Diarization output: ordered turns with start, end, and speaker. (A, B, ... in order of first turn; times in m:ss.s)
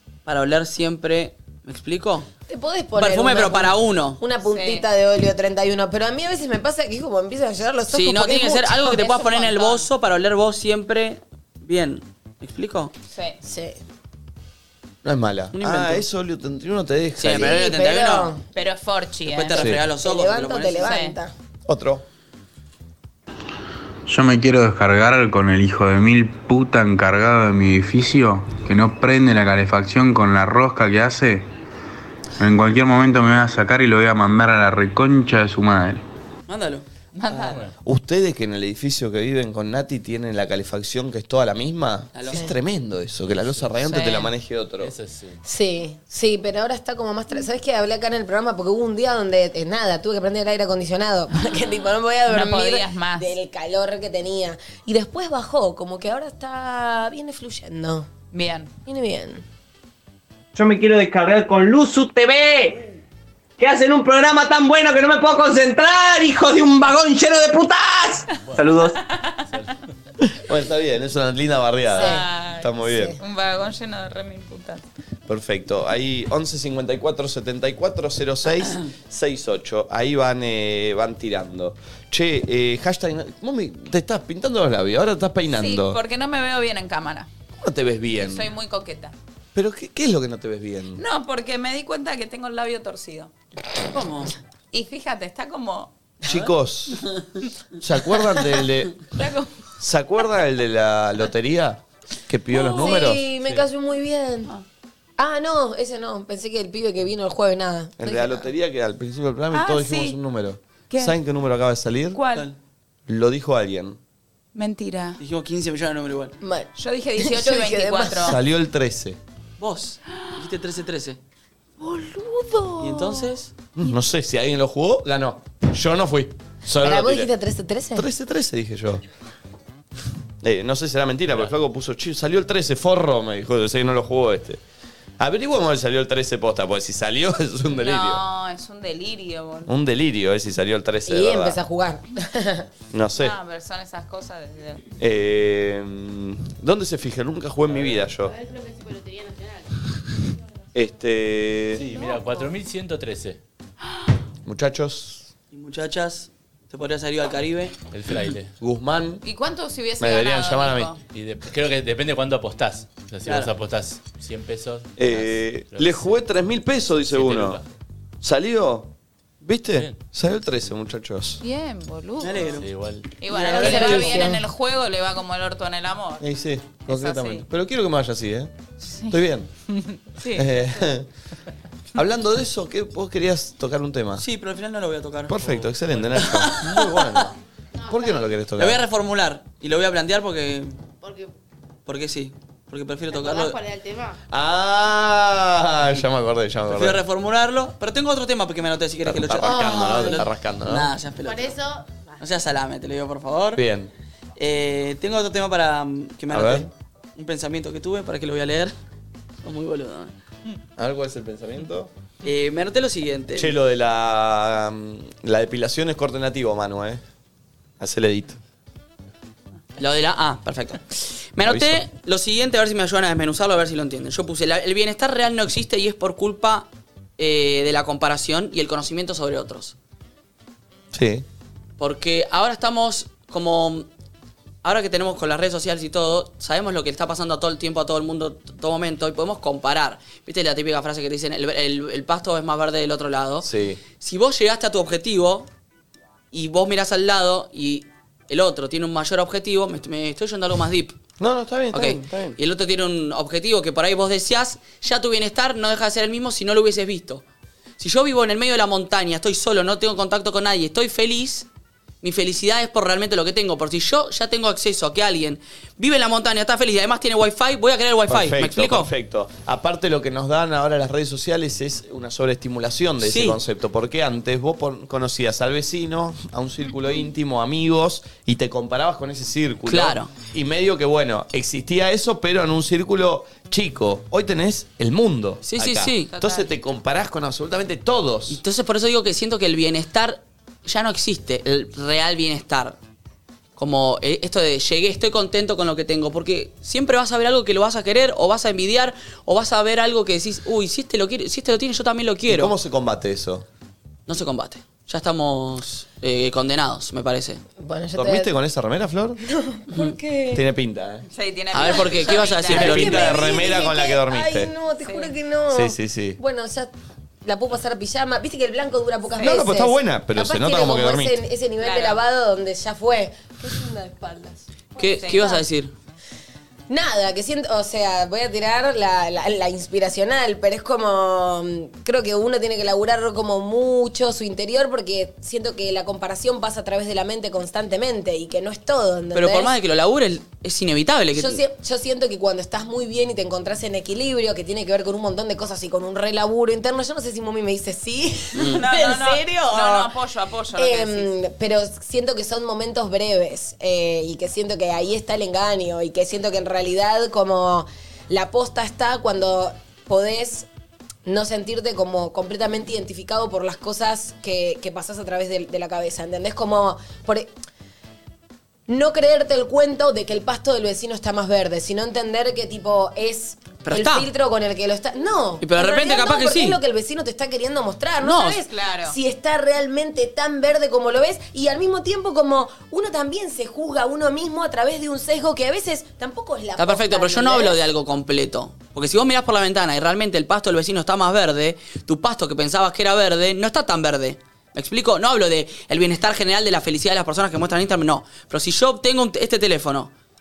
0:00.2-0:02.3 A
0:02.5-0:09.5 B
0:03.0-0:04.2 A
0:04.4-0:04.8 C
0:07.9-0:12.9 A
0:09.5-0:09.8 C
0:13.1-0:13.4 C
0:13.4-0:13.8 B
0:15.0-0:17.6 D
0:15.5-0:16.0 A
0:17.2-0:18.3 A
0:17.2-0:18.4 B
0:18.5-0:19.7 C
0:19.3-0:20.9 A
0:19.6-0:19.8 D
0:20.0-0:21.3 B
0:20.8-0:21.2 C
0:21.6-0:22.0 D
0:24.1-0:31.5 E
0:32.4-0:36.0 E
0:36.5-0:36.8 A
0:37.1-0:37.6 C
0:37.3-0:37.7 F
0:37.8-0:44.9 D
0:42.1-0:42.4 A
0:43.8-0:44.3 C
0:44.8-0:45.4 F
0:45.4-0:58.1 B
0:52.3-0:53.4 C
0:58.3-0:58.7 C
0:58.8-0:59.4 B
1:00.5-1:02.8 G
1:03.6-1:09.0 G
1:08.4-1:08.8 F
1:09.0-1:09.5 C
1:09.5-1:09.8 F
1:10.4-1:13.1 D
1:11.9-1:14.8 C
1:11.9-1:12.3 B
1:12.8-1:13.2 B
1:15.3-1:26.0 D
1:25.5-1:27.3 C
1:27.6-1:28.5 D
1:28.2-1:29.1 C
1:29.5-1:31.0 D
1:31.0-1:33.3 C
1:33.9-1:34.3 A
1:34.7-1:35.9 C
1:36.2-1:37.0 D
1:37.8-1:39.0 D
1:39.1-1:39.5 C
1:39.8-1:43.2 D
1:42.5-1:44.5 B
1:42.6-1:43.1 C
1:45.2-1:48.5 B
1:48.0-1:52.2 D
1:49.5-1:50.2 C
1:50.9-1:51.2 C
1:52.1-1:52.5 C
1:53.1-1:54.0 D
1:54.5-1:55.2 C
1:55.2-1:56.3 A
1:56.4-1:58.4 B
1:56.8-1:58.4 C
1:58.2-1:59.2 D
1:59.6-2:01.2 A
2:02.0-2:03.0 B
2:02.8-2:03.5 A
2:03.8-2:07.3 D
2:06.8-2:08.1 B
2:07.9-2:09.0 D
2:10.4-2:14.6 D
2:15.2-2:18.2 D
2:17.7-2:19.7 C
2:19.7-2:21.6 D
2:21.0-2:22.6 B
2:22.9-2:23.4 D
2:23.2-2:24.8 C
2:25.0-2:28.3 D
2:27.7-2:28.0 F
2:28.2-2:29.7 H
2:30.7-2:31.8 D
2:31.7-2:33.4 F
2:34.4-2:35.3 D
2:35.5-2:37.7 A
2:37.9-2:38.5 F
2:38.6-2:39.2 D
2:39.2-2:41.0 C
2:40.0-2:40.9 D
2:41.1-2:46.2 F
2:43.2-2:43.5 A
2:45.0-2:47.6 D
2:47.0-2:47.6 F
2:48.2-2:51.4 D
2:49.7-2:50.0 F
2:51.4-2:52.5 C
2:52.2-2:52.7 A
2:52.5-2:53.1 F
2:53.2-2:56.2 C
2:53.2-2:54.2 A
2:53.4-2:54.4 B
2:56.2-2:58.5 D
2:56.8-2:57.4 C
2:58.8-2:59.2 C
2:59.1-2:59.5 D
2:59.7-3:00.9 C
3:00.3-3:01.1 D
3:01.9-3:04.2 D
3:04.2-3:05.4 A
3:05.3-3:07.4 D
3:05.4-3:06.3 F
3:06.2-3:06.8 A
3:07.8-3:08.1 H
3:07.9-3:08.8 D
3:08.6-3:10.8 A
3:11.0-3:11.3 H
3:11.8-3:13.6 A
3:13.1-3:14.2 H
3:14.3-3:17.0 D
3:16.7-3:21.6 A
3:19.0-3:20.9 D
3:19.5-3:20.2 B
3:21.2-3:22.2 H
3:22.2-3:23.6 A
3:23.6-3:23.9 D
3:24.4-3:28.7 A
3:26.3-3:26.7 D
3:29.4-3:30.1 A
3:30.8-3:31.9 D
3:32.2-3:33.5 A
3:33.3-3:37.0 D
3:37.8-3:38.4 D
3:39.8-3:49.7 A
3:41.4-3:41.8 D
3:50.9-3:51.2 D
3:51.8-3:53.9 A
3:54.6-4:05.5 A
4:03.4-4:03.8 D
4:06.3-4:11.0 A
4:11.2-4:12.4 D
4:11.7-4:17.2 A
4:17.8-4:21.5 A
4:22.0-4:28.9 A
4:28.1-4:48.4 D
4:33.0-4:33.4 A
4:39.7-4:40.1 A
4:45.4-4:46.1 A
4:46.2-4:46.5 C
4:48.3-4:52.8 A
4:53.6-5:02.5 A
5:02.3-5:03.4 D
5:04.1-5:07.4 A
5:07.6-5:08.3 B
5:07.9-5:09.2 D
5:09.2-5:10.4 B
5:10.3-5:11.1 D
5:11.1-5:13.3 C
5:11.5-5:13.1 A
5:12.5-5:16.7 B
5:12.5-5:14.5 D
5:14.8-5:15.1 C
5:15.5-5:16.2 D
5:17.2-5:25.4 B
5:19.2-5:21.2 D
5:21.6-5:22.0 C
5:24.8-5:25.7 A
5:26.7-5:39.5 B
5:39.1-5:41.4 A
5:41.1-5:49.9 B
5:48.4-5:48.6 A
5:48.4-5:51.1 C
5:50.6-6:00.5 B
6:01.0-6:07.3 B
6:08.7-6:27.6 B
6:13.6-6:14.1 A
6:15.4-6:16.6 A
6:18.0-6:18.3 A
6:18.1-6:19.0 C
6:26.6-6:39.9 A